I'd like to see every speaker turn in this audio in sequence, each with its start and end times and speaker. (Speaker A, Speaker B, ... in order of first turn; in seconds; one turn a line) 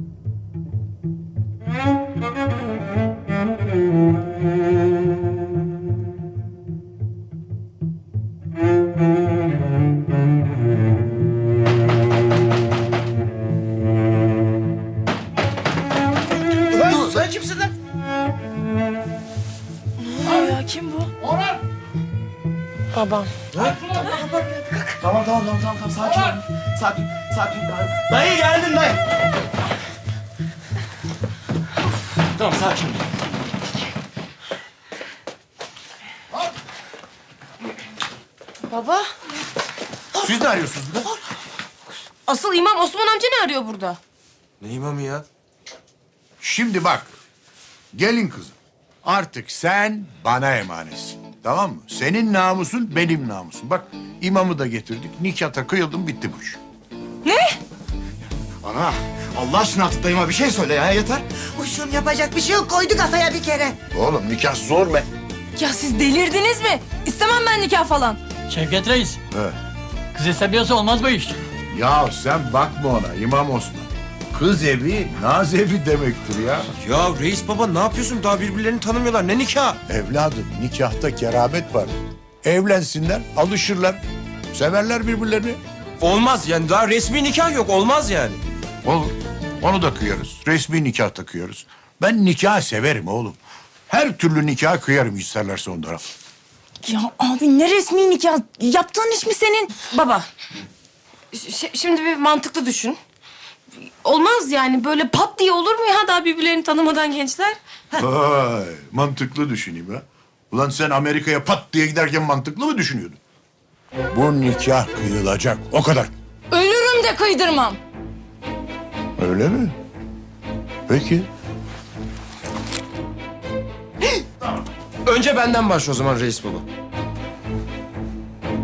Speaker A: 16.8-17.7
Speaker B: 20.2-21.1
Speaker C: 22.9-23.4
Speaker C: 24.2-24.6
Speaker A: 25.0-29.0
Speaker A: 32.4-33.1
Speaker C: 38.7-39.1
Speaker D: 40.2-41.1
Speaker C: 42.2-44.0
Speaker E: 44.6-45.2
Speaker D: 46.4-47.1
Speaker D: 47.9-56.6
Speaker A: 58.6-61.2
Speaker F: 61.6-63.7
Speaker D: 63.9-65.1
Speaker B: 65.6-67.1
Speaker B: 67.9-68.2
Speaker G: 68.5-69.2
Speaker G: 70.1-71.4
Speaker D: 71.7-76.7
Speaker E: 76.8-79.8
Speaker D: 79.9-84.0
Speaker D: 84.5-85.6
Speaker E: 86.0-88.4
Speaker D: 88.8-93.4
Speaker D: 93.9-96.0
Speaker B: 96.8-99.8
Speaker C: 99.8-100.3
Speaker C: 101.3-103.0
Speaker C: 103.8-108.0
Speaker D: 108.0-113.2
Speaker D: 114.1-116.1
Speaker B: 116.5-117.8
Speaker D: 119.2-119.7
Speaker D: 120.9-121.3
Speaker E: 125.1-126.6